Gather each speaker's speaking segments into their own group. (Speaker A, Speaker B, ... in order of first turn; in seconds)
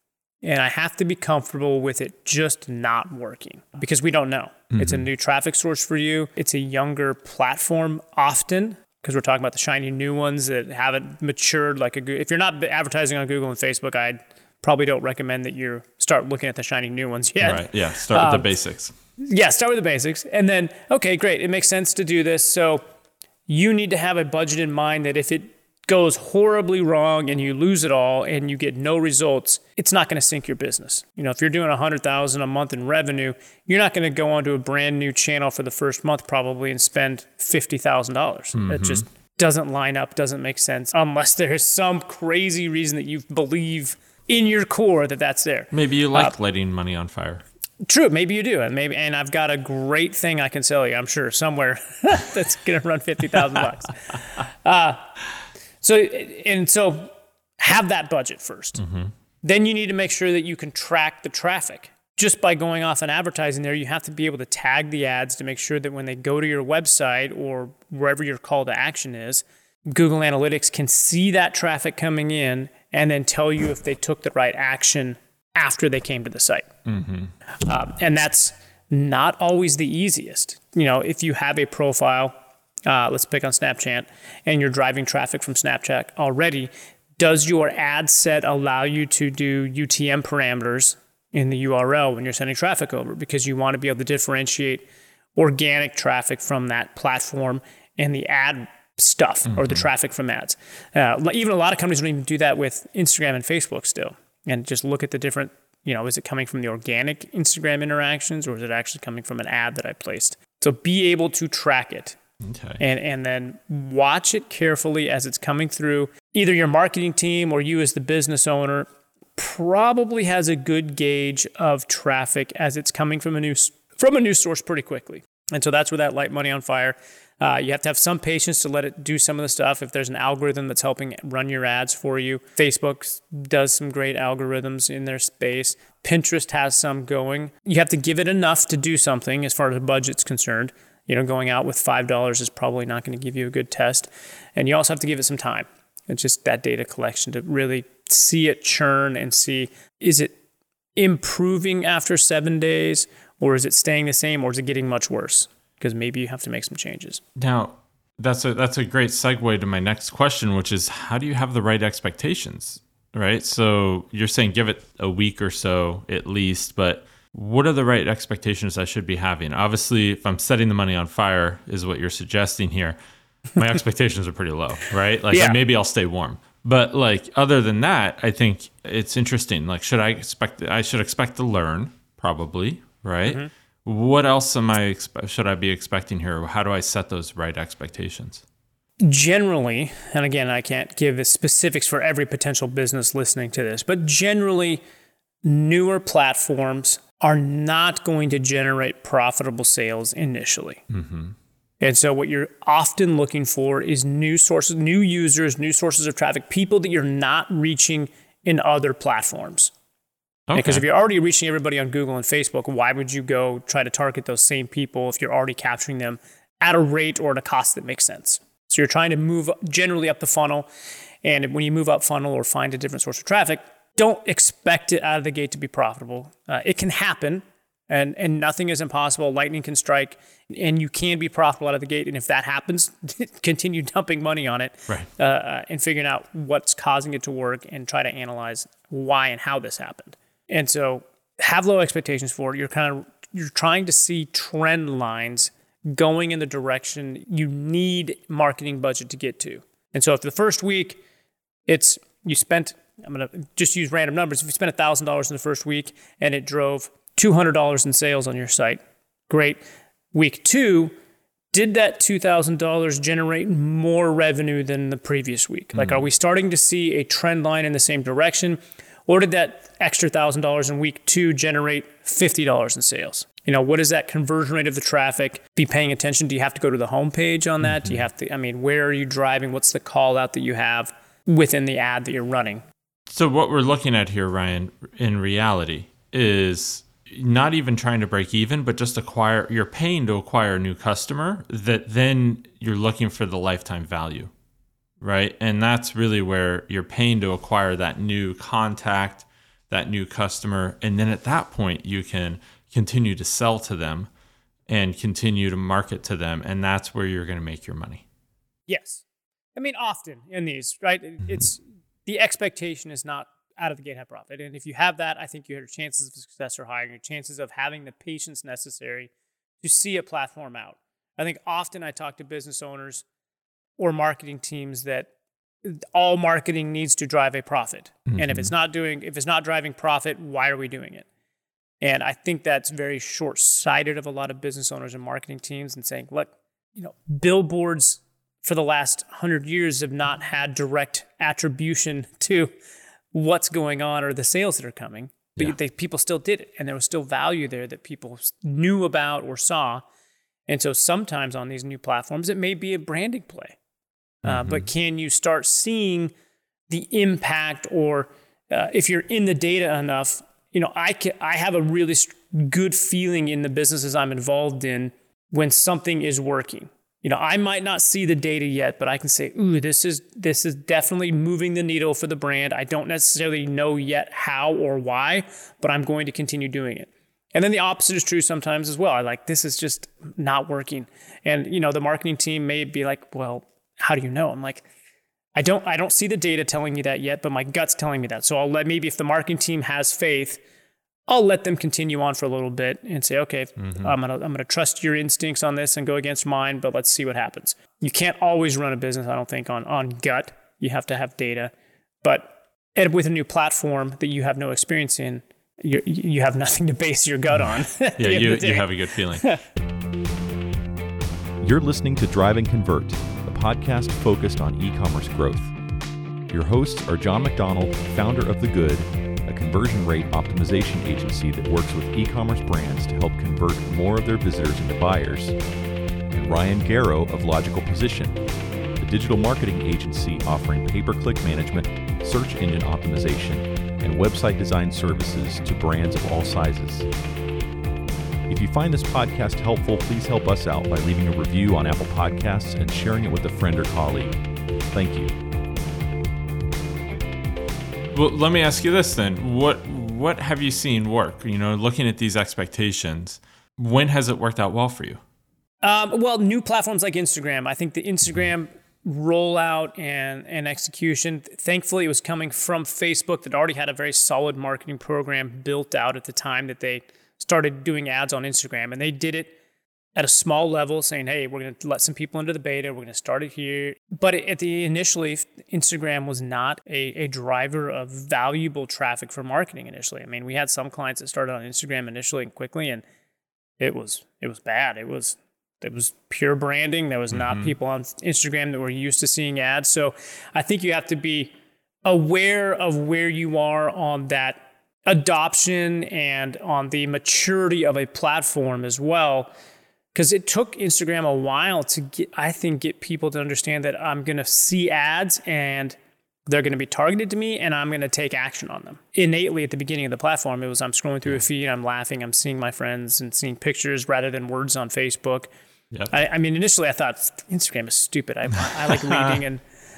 Speaker A: 0.4-18.5, 19.2-22.8, 23.5-46.3, 47.9-55.1, 55.8-58.8, 59.4-76.7, 77.7-82.3, 82.9-94.8, 95.3-112.2, 112.8-150.3, 150.9-157.2, 175.3-175.6, 183.2-183.5, 189.0-194.8, 195.4-200.8, 201.8-209.7, 210.5-220.7, 221.2-251.0, 251.7-259.6, 260.1-260.9, 261.5-282.6, 308.7-309.0, 309.6-319.1, 319.6-323.0, 323.8-325.1, 325.6-331.1, 331.8-342.5, 343.1-349.8, 350.5-353.6, 354.2-356.1, 356.7-384.7, 385.3-390.4, 391.1-409.4, 455.6-469.4, 469.9-482.8, 483.6-491.3, 491.8-499.3, 499.9-515.3, 515.9-519.4
Speaker B: 4.7-5.1, 17.4-18.9, 38.5-39.0, 45.7-47.4, 58.8-59.1, 76.8-77.3, 99.5-99.8, 112.4-112.8, 157.3-173.0, 173.5-188.4, 200.9-201.3, 210.5-210.8, 265.7-266.1, 277.6-278.0, 283.1-294.3, 295.0-304.1, 304.7-308.0, 328.1-328.5, 354.2-354.7, 393.6-393.9, 408.0-409.3, 447.9-455.0, 487.1-487.5, 518.7-519.2
Speaker C: 411.4-415.5, 416.3-425.4, 426.1-428.2, 428.8-436.9, 438.3-444.2, 444.7-445.2